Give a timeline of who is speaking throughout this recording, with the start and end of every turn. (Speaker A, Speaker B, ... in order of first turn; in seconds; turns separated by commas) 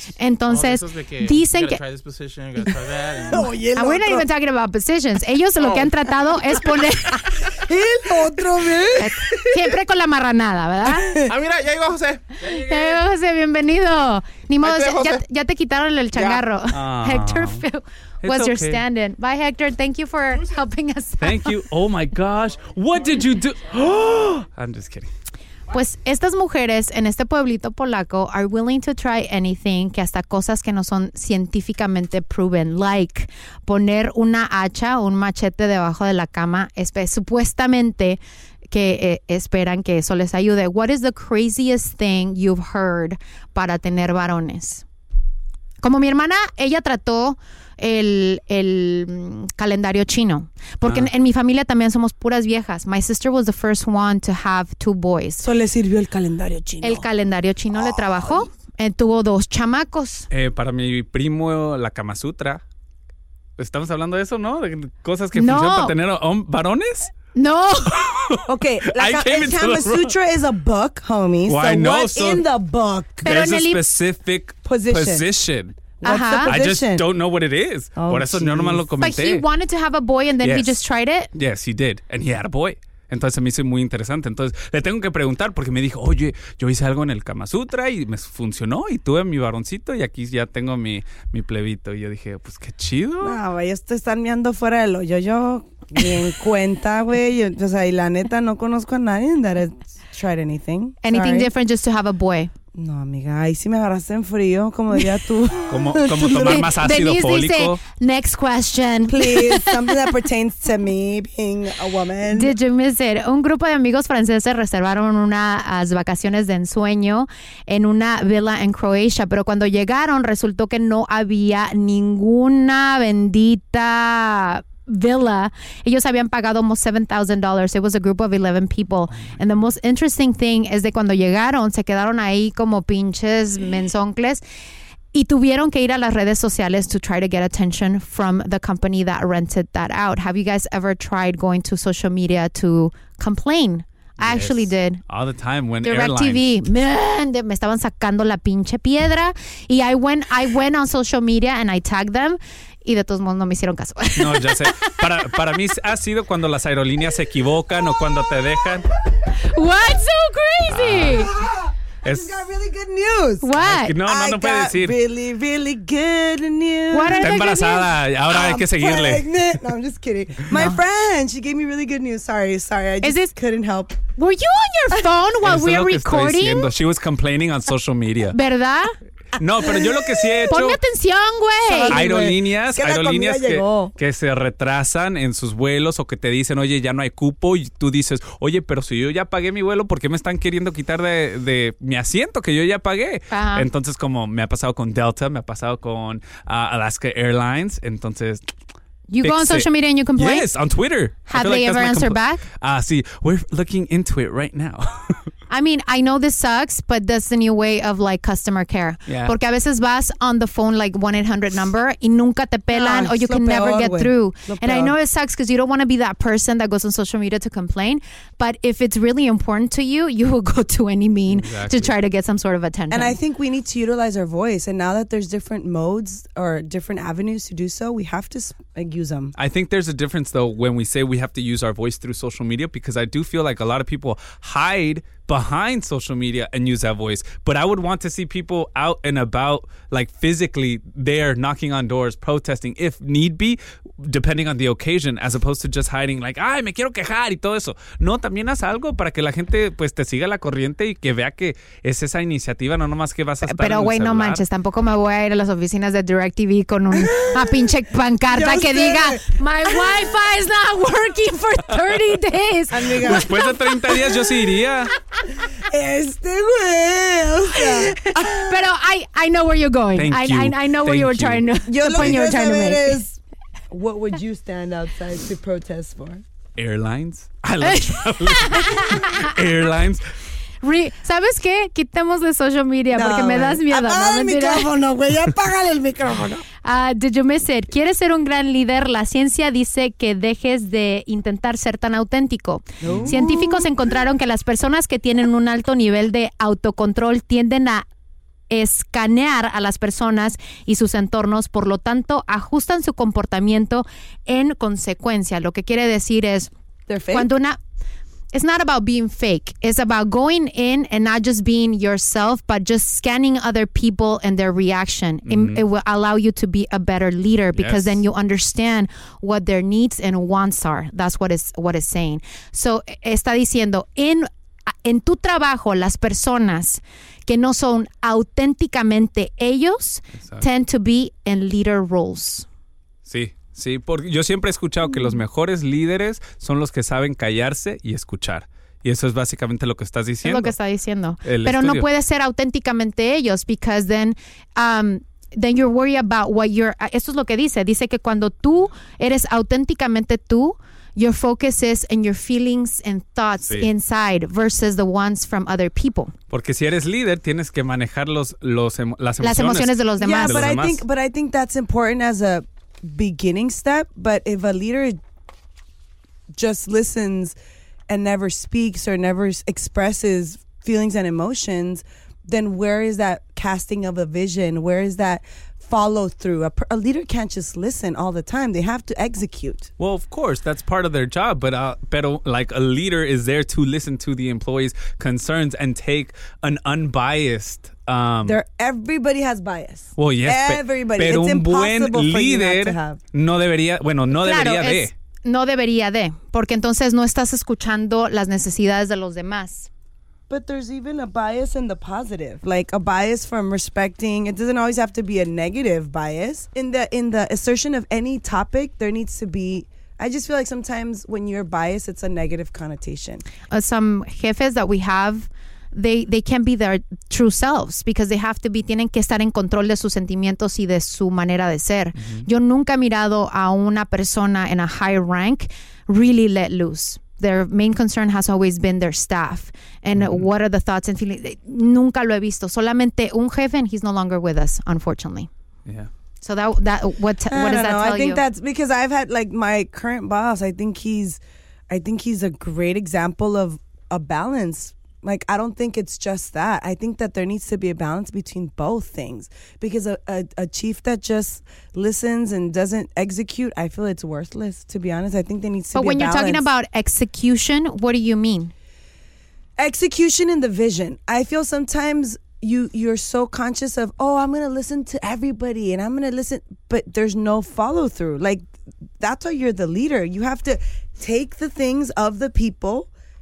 Speaker A: 0.2-1.8, Speaker B: 0.5-3.5, Speaker C: 3.3-4.3, Speaker A: 3.3-7.4, Speaker B: 5.6-6.9, Speaker C: 7.5-9.4, Speaker A: 8.9-11.2, Speaker C: 10.8-11.3, Speaker B: 11.2-13.0, Speaker A: 12.4-21.6, Speaker B: 14.6-15.2, Speaker B: 16.1-16.4, Speaker D: 16.7-17.6, Speaker D: 18.2-18.8, Speaker D: 21.2-25.1, Speaker A: 25.7-38.2, Speaker A: 38.7-44.8, Speaker A: 45.8-55.4, Speaker D: 50.8-51.1, Speaker C: 55.4-57.1, Speaker A: 56.8-60.3, Speaker C: 57.9-58.4, Speaker D: 60.3-62.6, Speaker D: 63.6-67.1, Speaker A: 65.3-65.9, Speaker A: 67.3-68.0, Speaker D: 68.0-70.1, Speaker C: 68.5-73.3, Speaker D: 71.5-72.4, Speaker A: 73.2-73.8, Speaker D: 73.2-75.8, Speaker C: 74.6-75.2, Speaker C: 76.0-77.1, Speaker A: 76.0-76.5, Speaker D: 76.5-79.4, Speaker C: 78.0-78.8, Speaker A: 79.0-81.3, Speaker D: 80.4-80.8, Speaker D: 81.3-93.4, Speaker C: 93.2-101.5, Speaker A: 101.0-102.5, Speaker C: 102.7-106.7, Speaker D: 105.7-107.8, Speaker A: 106.3-109.9, Speaker C: 109.1-112.5, Speaker A: 112.3-134.4, Speaker A: 135.1-145.0, Speaker D: 144.2-146.5, Speaker A: 145.8-154.9, Speaker D: 154.2-158.9, Speaker A: 159.3-161.3, Speaker D: 160.7-161.3, Speaker C: 161.2-167.4, Speaker D: 162.0-162.4, Speaker A: 163.4-164.0, Speaker D: 163.6-164.9, Speaker A: 166.9-167.9, Speaker D: 167.2-169.3, Speaker C: 168.3-174.0, Speaker A: 170.5-170.8, Speaker A: 173.0-173.3, Speaker A: 174.1-176.7, Speaker D: 175.4-178.3, Speaker A: 178.3-178.9, Speaker D: 179.3-180.8, Speaker C: 179.7-180.5, Speaker A: 180.5-182.0, Speaker C: 181.7-183.9, Speaker D: 181.9-198.4, Speaker A: 193.3-193.7, Speaker A: 199.1-200.5, Speaker D: 199.2-205.2, Speaker A: 201.3-202.4, Speaker A: 205.5-223.2, Speaker D: 209.1-209.3, Speaker C: 212.7-214.9, Speaker D: 221.3-221.9, Speaker C: 222.9-229.3, Speaker D: 229.4-254.4, Speaker A: 253.4-263.7, Speaker C: 256.9-257.6, Speaker C: 258.3-259.7, Speaker C: 262.7-263.3, Speaker D: 263.0-264.9, Speaker C: 265.6-268.6, Speaker A: 267.6-273.0, Speaker D: 269.9-272.1, Speaker C: 271.7-273.2, Speaker C: 273.7-276.2, Speaker D: 276.6-280.0, Speaker A: 277.6-279.3, Speaker A: 280.6-284.7, Speaker C: 282.9-286.4, Speaker A: 286.6-297.8, Speaker C: 292.8-293.7, Speaker A: 298.5-306.5, Speaker C: 306.9-307.3, Speaker A: 307.1-307.6, Speaker A: 308.3-324.3, Speaker D: 315.2-315.6, Speaker D: 317.6-318.0, Speaker A: 324.8-332.4, Speaker D: 330.2-330.4, Speaker D: 333.1-340.6, Speaker A: 340.2-356.1, Speaker D: 341.2-341.9, Speaker D: 356.3-360.8, Speaker A: 359.2-360.5, Speaker C: 360.0-365.0, Speaker C: 366.3-367.4, Speaker C: 367.9-379.7, Speaker D: 379.8-388.4, Speaker C: 388.2-393.0, Speaker D: 390.0-394.9, Speaker A: 394.2-399.7, Speaker C: 400.3-413.2, Speaker A: 413.5-435.3, Speaker D: 422.0-422.2, Speaker D: 429.9-430.2, Speaker A: 436.2-438.2, Speaker C: 437.3-456.4, Speaker A: 455.7-458.5, Speaker C: 459.6-468.4, Speaker C: 469.0-472.9